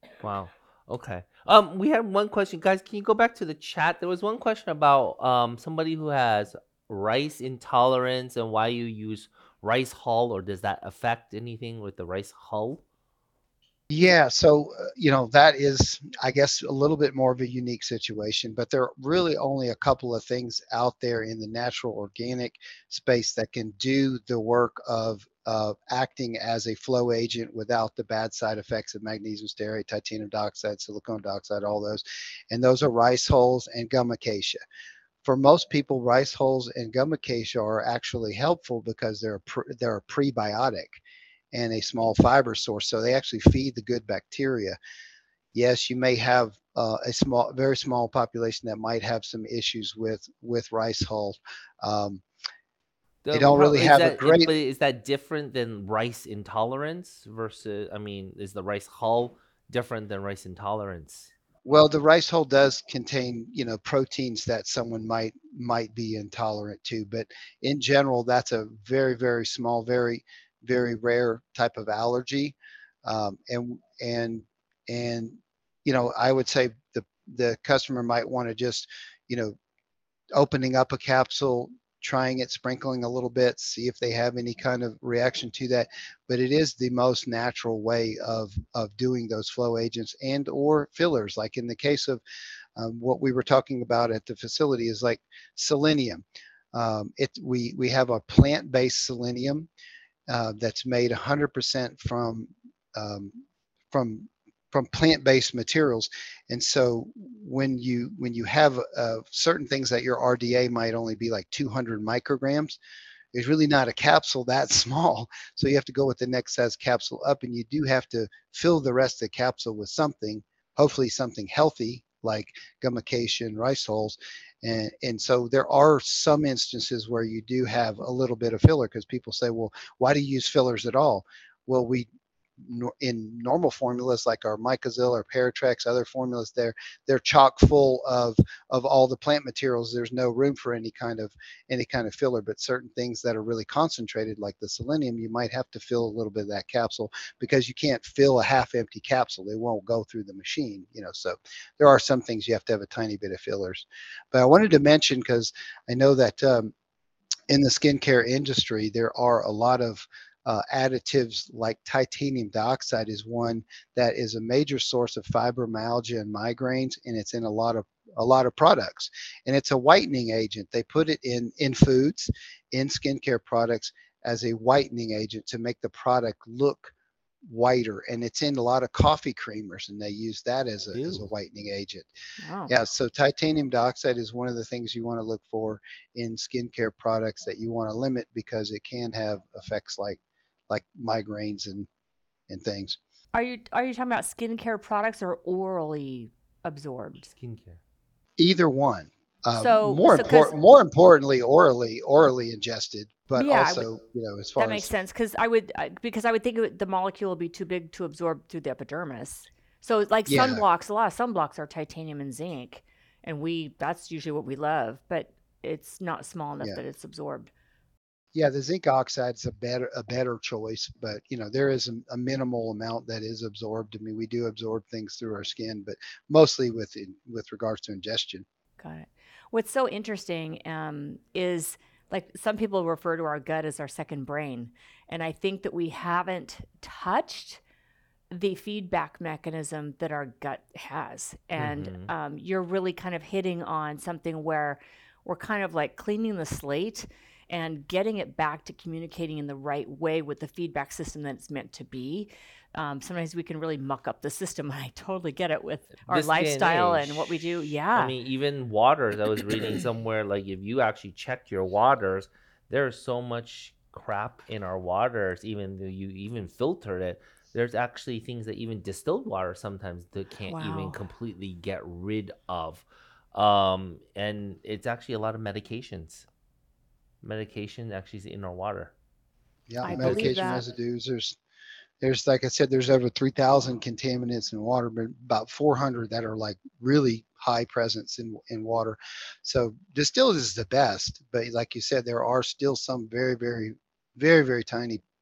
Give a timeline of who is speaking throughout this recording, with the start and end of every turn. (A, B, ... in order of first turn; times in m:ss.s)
0:00.2-0:12.8 A
0:13.9-0:34.6 B
0:35.2-0:40.9 B
0:41.5-0:44.8 B
0:45.5-0:52.2 B
0:53.2-1:01.3 A
0:53.3-0:54.5 B
1:01.6-1:19.5 B
1:20.3-1:32.2 B
1:32.8-1:39.7 B
1:40.3-1:43.4 B
1:43.9-1:52.8 B
1:53.3-2:36.7 B
2:37.5-2:56.9 B
2:57.4-3:02.1 B
3:00.9-3:01.3 A
3:02.4-3:02.7 C
3:02.7-3:10.2 B
3:10.7-3:11.9 B
3:12.5-3:13.0 B
3:13.3-3:17.3 C
3:17.3-3:17.8 A
3:18.4-3:24.9 B
3:19.5-3:20.5 C
3:23.3-3:23.9 C
3:24.6-3:37.5 C
3:30.3-3:30.6 B
3:38.3-3:48.4 B
3:48.8-3:57.6 C
3:58.3-4:18.1 C
4:01.6-4:02.1 A
4:16.1-4:17.4 A
4:17.9-4:36.2 A
4:30.5-4:31.0 C
4:37.2-4:38.9 A
4:39.7-4:41.4 B
4:39.8-4:40.6 C
4:42.0-4:55.0 B